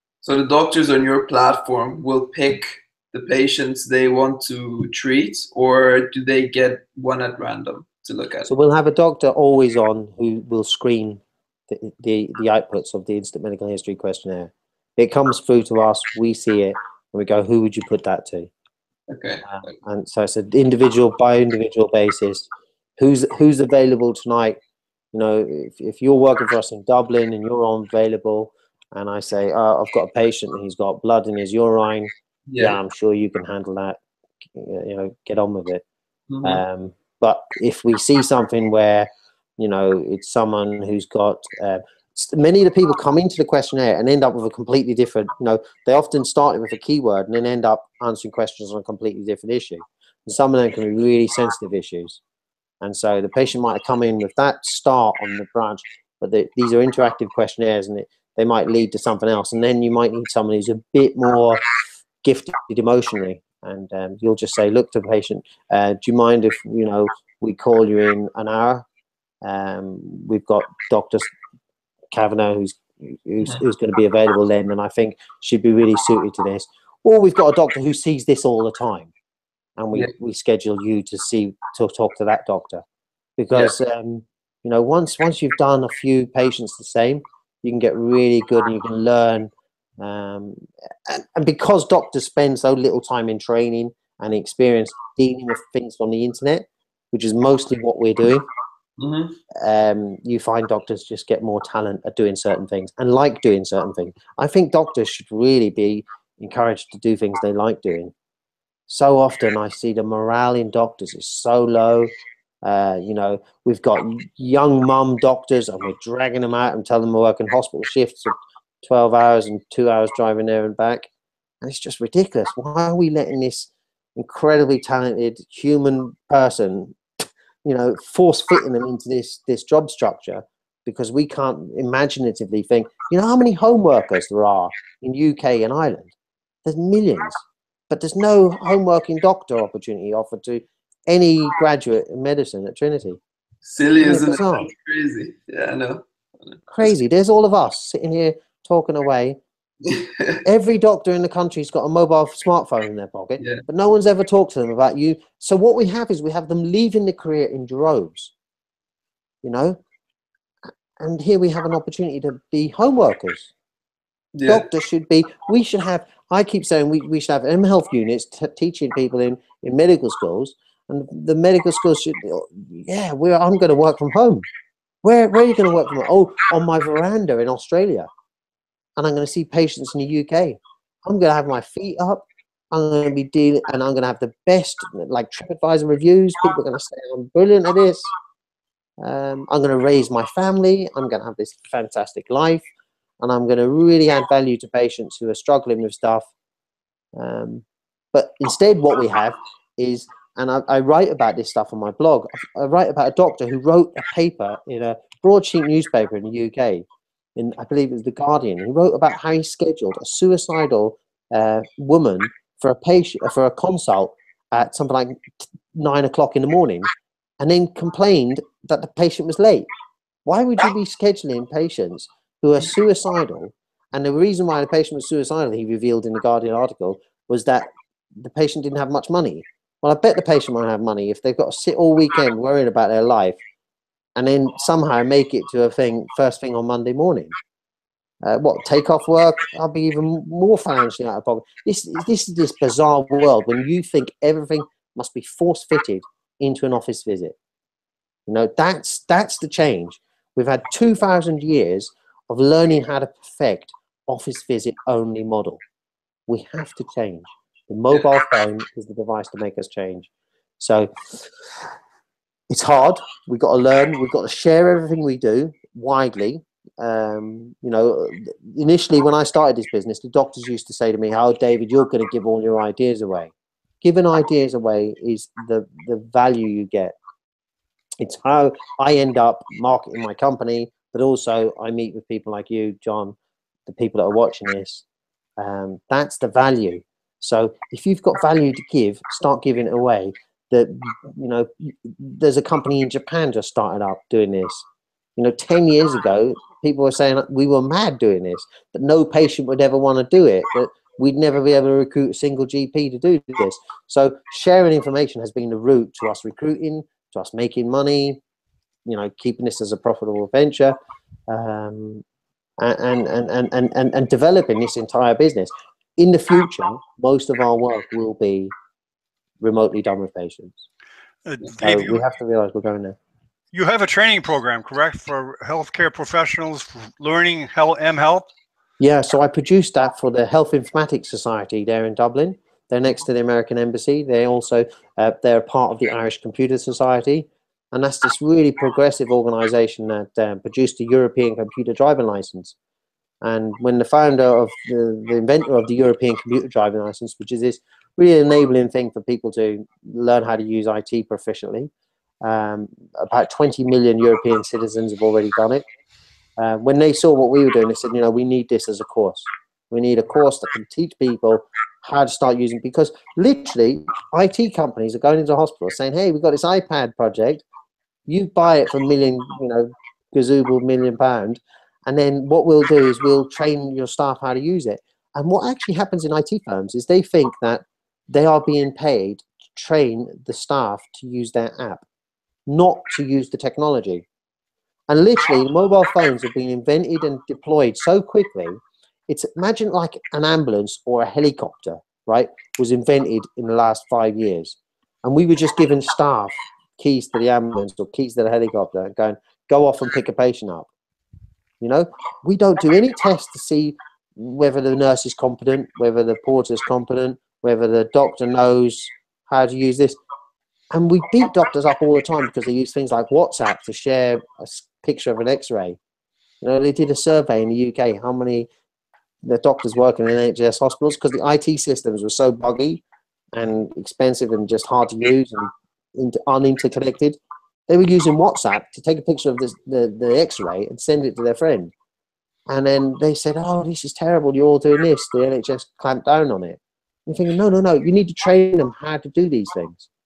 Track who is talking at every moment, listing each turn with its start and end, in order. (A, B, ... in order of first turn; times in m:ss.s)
0:00.2-0:08.5 A
0:08.4-0:18.5 B
0:19.1-0:19.4 A
0:19.4-0:24.6 B
0:25.1-0:34.0 B
0:32.5-0:32.8 A
0:34.5-0:35.8 B
0:36.3-0:36.6 A
0:36.4-0:52.2 B
0:52.8-1:01.6 B
1:02.2-1:08.8 B
1:09.4-1:11.3 B
1:12.1-1:19.1 B
1:19.8-1:22.8 B
1:23.4-1:38.5 B
1:39.0-1:39.4 A
1:39.5-1:48.1 B
1:48.9-2:01.1 B
2:01.6-2:07.0 B
2:07.6-2:16.1 B
2:16.6-2:23.2 B
2:23.6-2:26.9 A
2:24.0-2:24.7 B
2:26.7-2:29.4 B
2:29.8-2:30.4 A
2:30.4-2:38.3 B
2:39.4-2:39.8 B
2:41.0-2:43.5 B
2:44.3-2:44.6 A
2:44.4-2:54.4 B
2:55.0-2:58.1 B
2:59.0-3:08.1 B
3:09.0-3:12.6 B
3:13.2-3:16.3 B
3:17.1-3:39.7 B
3:40.2-3:53.4 B
3:54.1-3:57.3 B
3:58.2-4:07.4 B
4:08.3-4:15.6 B
4:16.3-4:20.1 B
4:20.6-4:21.2 B
4:22.5-4:37.0 B
4:38.0-4:44.8 B
4:45.4-4:54.6 B
4:55.2-5:08.2 B
5:08.8-5:10.8 B
5:11.3-5:12.0 B
5:12.6-5:18.5 B
5:19.4-5:20.6 B
5:21.2-5:22.0 C
5:21.6-5:23.0 B
5:23.5-5:28.3 C
5:28.8-5:42.6 B
5:43.2-5:51.7 B
5:52.2-5:55.6 B
5:56.4-6:07.4 B
6:08.1-6:21.8 B
6:22.5-6:24.0 B
6:24.9-6:40.7 B
6:41.6-6:50.0 B
6:50.7-6:55.8 B
6:56.4-6:58.5 B
6:59.2-7:02.8 B
7:03.3-7:11.7 B
7:12.5-7:19.9 B